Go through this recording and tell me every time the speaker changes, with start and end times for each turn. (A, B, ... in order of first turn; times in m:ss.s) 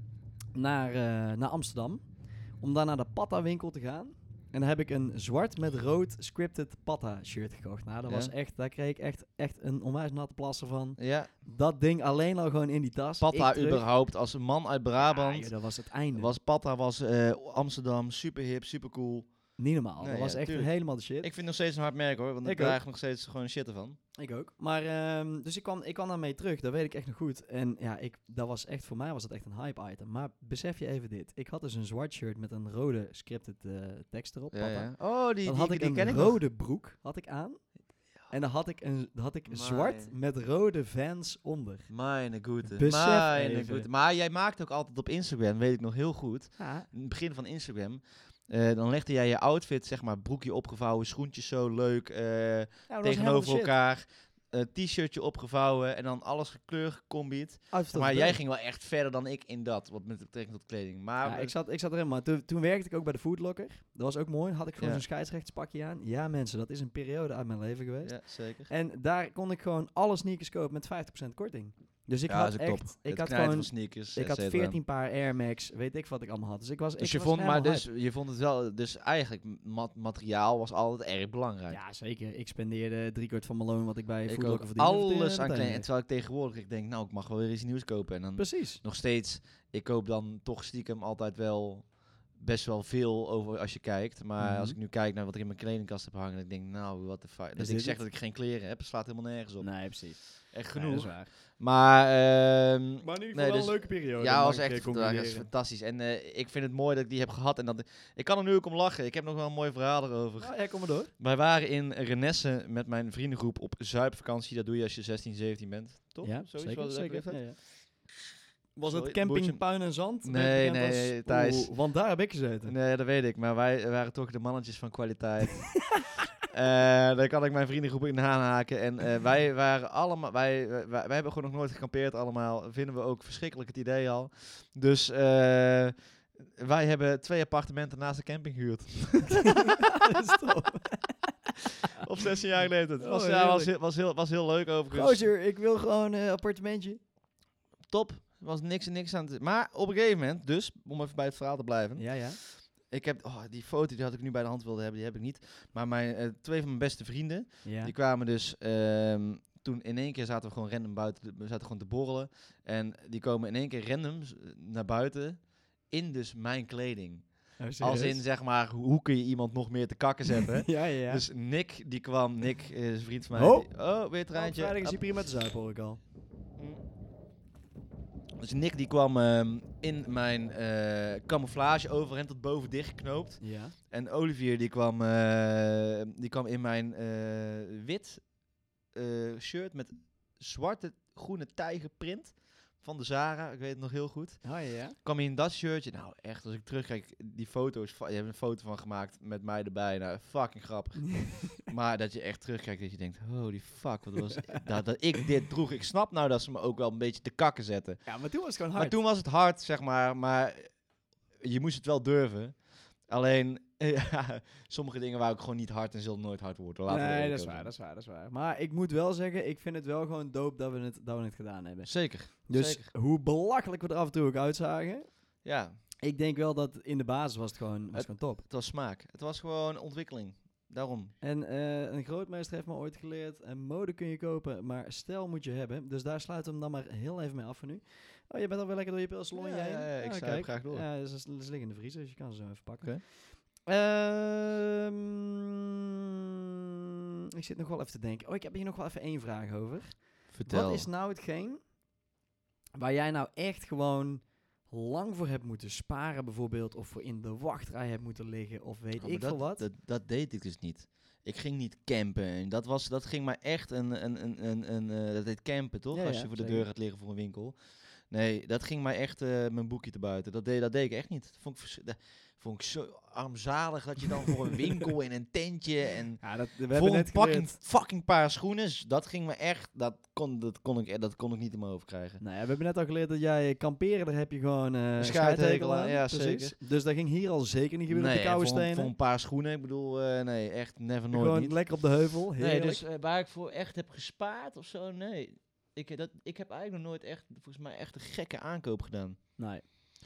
0:00.5-0:13.8 A
0:08.0-0:08.3 B
0:11.0-0:11.3 B
0:13.2-0:24.0 B
0:15.0-0:16.3 A
0:19.6-0:21.3 A
0:22.4-0:22.8 A
0:24.2-0:41.9 A
0:34.5-0:36.4 B
0:39.5-0:40.1 B
0:41.9-1:01.5 B
0:42.6-0:43.9 A
0:46.6-0:46.9 A
0:52.9-0:53.7 A
0:57.7-0:58.4 A
1:01.2-1:17.8 A
1:04.8-1:05.0 B
1:08.0-1:08.7 B
1:12.3-1:14.8 B
1:17.0-1:21.8 B
1:21.7-1:25.9 A
1:24.3-1:50.6 B
1:28.4-1:28.8 A
1:34.4-1:34.8 A
1:37.6-1:38.0 A
1:39.6-1:41.3 A
1:43.0-1:45.5 A
1:50.4-1:51.1 A
1:51.1-1:57.6 B
1:56.2-1:57.6 A
1:58.8-2:01.8 B
1:58.8-2:02.7 A
2:02.6-2:19.8 B
2:19.6-2:21.2 A
2:22.0-2:25.3 B
2:23.0-2:23.7 A
2:24.9-2:27.0 A
2:27.9-2:55.0 B
2:32.0-2:32.4 A
2:37.6-2:37.9 A
2:47.6-2:48.2 A
2:50.5-2:51.2 A
2:53.3-2:56.0 A
2:56.6-2:56.8 B
2:58.4-3:08.3 B
3:03.4-3:03.7 A
3:08.9-3:28.1 B
3:14.4-3:15.0 A
3:21.1-3:21.5 A
3:28.0-3:29.0 A
3:28.7-3:30.8 B
3:31.4-3:37.7 B
3:36.9-3:45.2 A
3:41.8-3:42.9 B
3:45.4-3:45.8 B
3:46.0-3:48.4 A
3:47.9-3:51.1 B
3:51.2-4:05.5 A
3:59.3-4:00.8 B
4:07.3-4:11.7 A
4:10.3-4:10.9 B
4:12.7-4:19.6 A
4:19.0-4:27.6 B
4:25.9-4:26.6 A
4:28.1-4:42.2 B
4:36.2-4:37.6 A
4:42.2-4:48.9 A
4:45.0-4:46.6 B
4:47.9-4:51.8 B
4:51.1-4:52.8 A
4:52.4-4:59.4 B
4:59.4-4:59.6 A